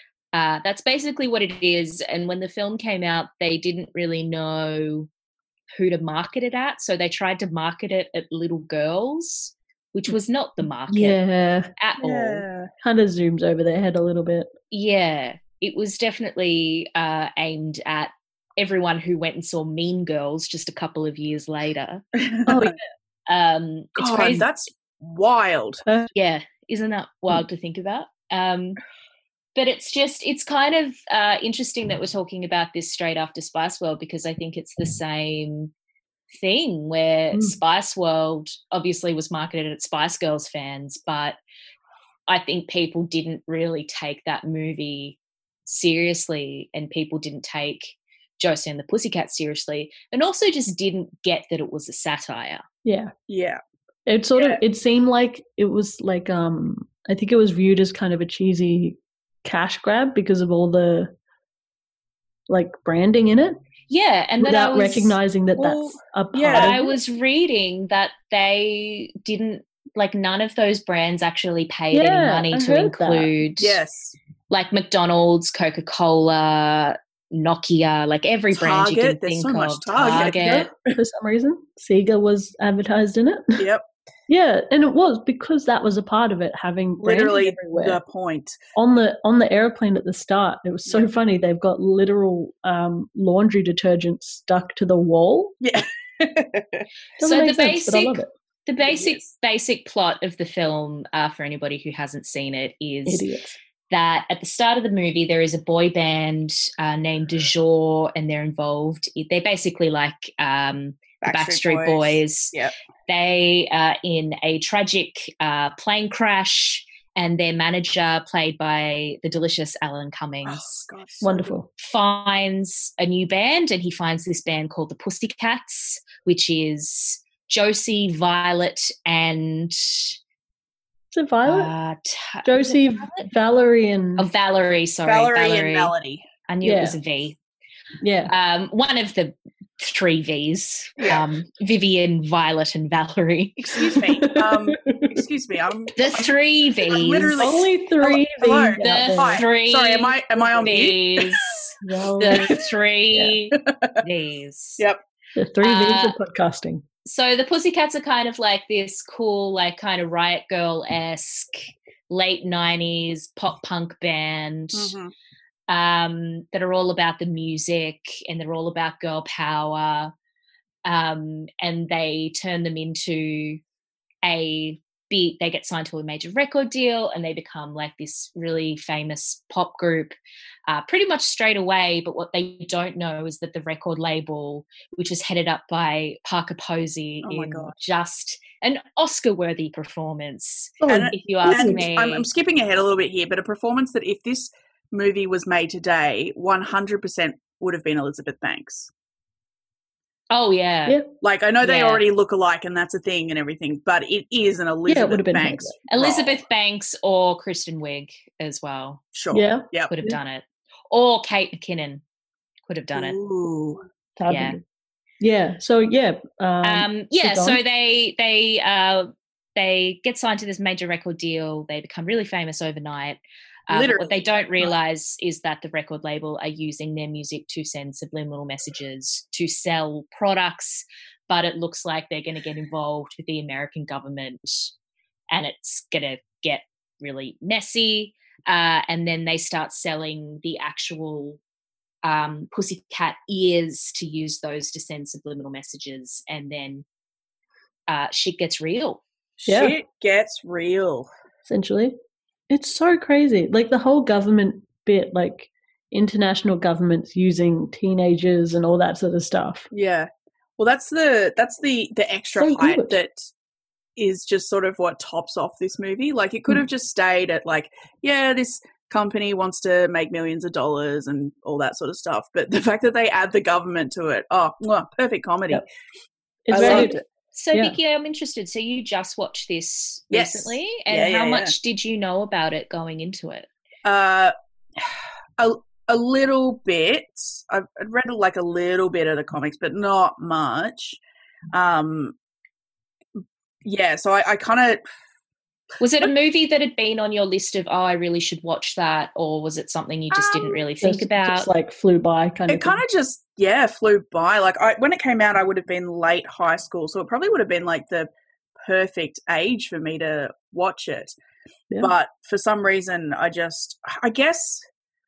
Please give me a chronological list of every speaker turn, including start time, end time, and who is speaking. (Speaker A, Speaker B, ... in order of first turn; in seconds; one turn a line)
Speaker A: 0.3-5.1
Speaker A: 5.7-11.2
Speaker B: 10.9-11.7
Speaker A: 11.8-12.4
Speaker C: 12.0-12.7
Speaker B: 12.8-14.5
Speaker A: 14.7-22.0
Speaker C: 22.1-22.7
Speaker B: 22.5-22.8
Speaker A: 23.3-24.5
Speaker C: 23.9-25.9
Speaker A: 26.1-28.8
Speaker A: 29.5-35.7
Speaker A: 36.3-41.4
Speaker A: 42.3-52.6
Speaker B: 52.8-53.1
Speaker C: 53.3-53.6
Speaker B: 54.0-61.1
Speaker C: 54.4-54.6
Speaker B: 62.5-63.6
Speaker A: 63.9-65.2
Speaker B: 64.4-66.9
Speaker C: 65.6-66.8
Speaker A: 66.5-73.8
Speaker B: 71.9-73.3
Speaker C: 73.6-74.1
Speaker A: 74.5-80.7
Speaker C: 78.5-80.7
Speaker B: 80.1-83.7
Speaker C: 83.6-83.8
Speaker B: 84.3-88.0
Speaker C: 87.0-88.6
Speaker B: 88.8-95.5
Speaker C: 95.6-96.8
Speaker B: 97.2-98.3
Speaker A: 97.2-103.2
Speaker C: 98.8-99.2
Speaker B: 103.0-103.5
Speaker A: 103.9-112.5
Speaker C: 111.2-112.7
Speaker A: 113.1-120.8
Speaker C: 120.4-121.5
Speaker B: 121.2-121.7
Speaker A: 121.8-130.2
Speaker B: 131.1-131.7
Speaker A: 131.4-133.3
Speaker B: 132.4-134.3
Speaker A: 134.2-135.9
Speaker C: 135.1-136.2
Speaker A: 136.5-137.4
Speaker B: 136.6-137.0
Speaker B: 138.0-138.3
Speaker A: 138.3-143.8
Speaker C: 141.0-141.2
Speaker C: 143.6-146.3
Speaker B: 143.9-145.2
Speaker A: 145.9-147.4
Speaker C: 146.9-151.5
Speaker B: 147.3-149.4
Speaker A: 148.8-154.8
Speaker B: 150.4-150.7
Speaker B: 151.8-152.6
Speaker C: 153.6-154.0
Speaker B: 155.3-156.8
Speaker A: 155.6-156.2
Speaker A: 157.0-164.9
Speaker C: 164.7-165.1
Speaker A: 165.7-170.1
Speaker A: 170.8-173.6
Speaker A: 174.2-180.2
Speaker A: 180.7-192.3
Speaker C: 187.2-187.8
Speaker B: 190.8-191.8
Speaker C: 190.9-198.9
Speaker A: 200.3-201.0
Speaker C: 201.2-206.4
Speaker A: 201.6-202.0
Speaker B: 204.9-205.8
Speaker A: 205.9-209.0
Speaker C: 209.1-209.9
Speaker B: 209.3-210.2
Speaker A: 209.9-212.0
Speaker A: 212.7-213.2
Speaker C: 212.9-213.8
Speaker B: 214.2-214.6
Speaker A: 214.3-214.6
Speaker B: 215.2-217.6
Speaker A: 216.6-234.7
Speaker C: 223.7-224.7
Speaker A: 235.3-241.4
Speaker A: 242.0-246.8
Speaker A: 247.9-249.0
Speaker C: 249.4-251.1
Speaker B: 249.5-249.8
Speaker B: 251.4-251.9
Speaker B: 252.5-259.7
Speaker C: 259.7-263.3
Speaker B: 262.4-263.0
Speaker C: 264.0-275.6
Speaker B: 276.4-277.0
Speaker C: 276.5-277.0
Speaker A: 276.6-283.5
Speaker C: 280.1-281.5
Speaker C: 283.8-291.0
Speaker C: 291.5-292.1
Speaker C: 293.2-294.8
Speaker A: 295.8-301.5
Speaker C: 300.1-300.6
Speaker B: 300.8-302.8
Speaker C: 302.5-308.1
Speaker C: 308.6-311.1
Speaker C: 311.8-314.6